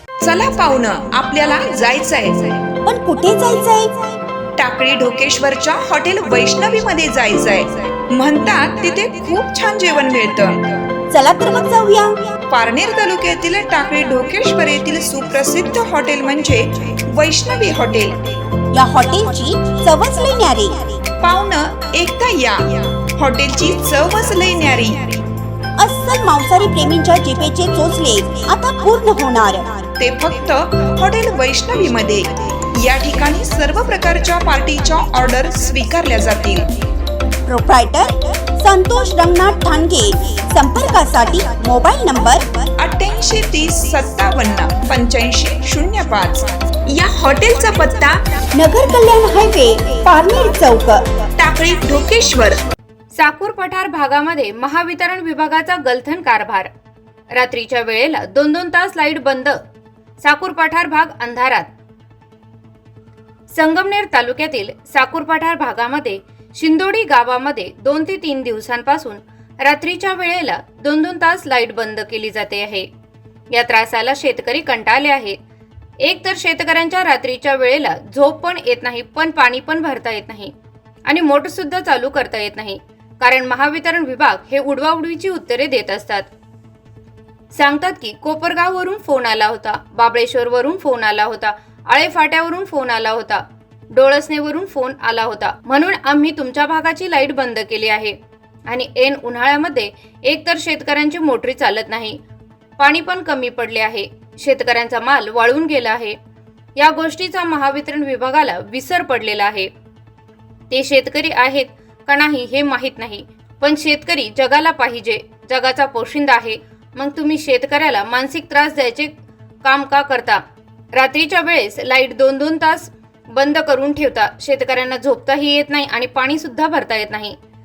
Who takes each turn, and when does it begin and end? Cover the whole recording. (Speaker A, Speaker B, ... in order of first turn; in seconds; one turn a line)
Speaker A: 0.2-2.6
Speaker B: 2.8-4.0
Speaker A: 4.6-10.7
Speaker B: 11.1-12.2
Speaker A: 12.5-18.4
Speaker B: 18.7-20.9
Speaker A: 21.2-25.2
Speaker B: 25.8-29.8
Speaker A: 30.0-36.7
Speaker B: 37.5-42.5
Speaker A: 42.8-48.2
Speaker B: 48.6-51.1
Speaker A: 51.4-52.6
Speaker C: 53.1-56.7
Speaker C: 57.3-59.6
Speaker C: 60.2-61.7
Speaker C: 63.5-72.9
Speaker C: 73.5-75.4
Speaker C: 76.0-80.5
Speaker C: 81.1-86.3
Speaker C: 87.5-98.2
Speaker C: 98.7-102.2
Speaker C: 102.8-106.2
Speaker C: 106.8-109.7
Speaker C: 110.7-120.4
Speaker C: 120.9-127.4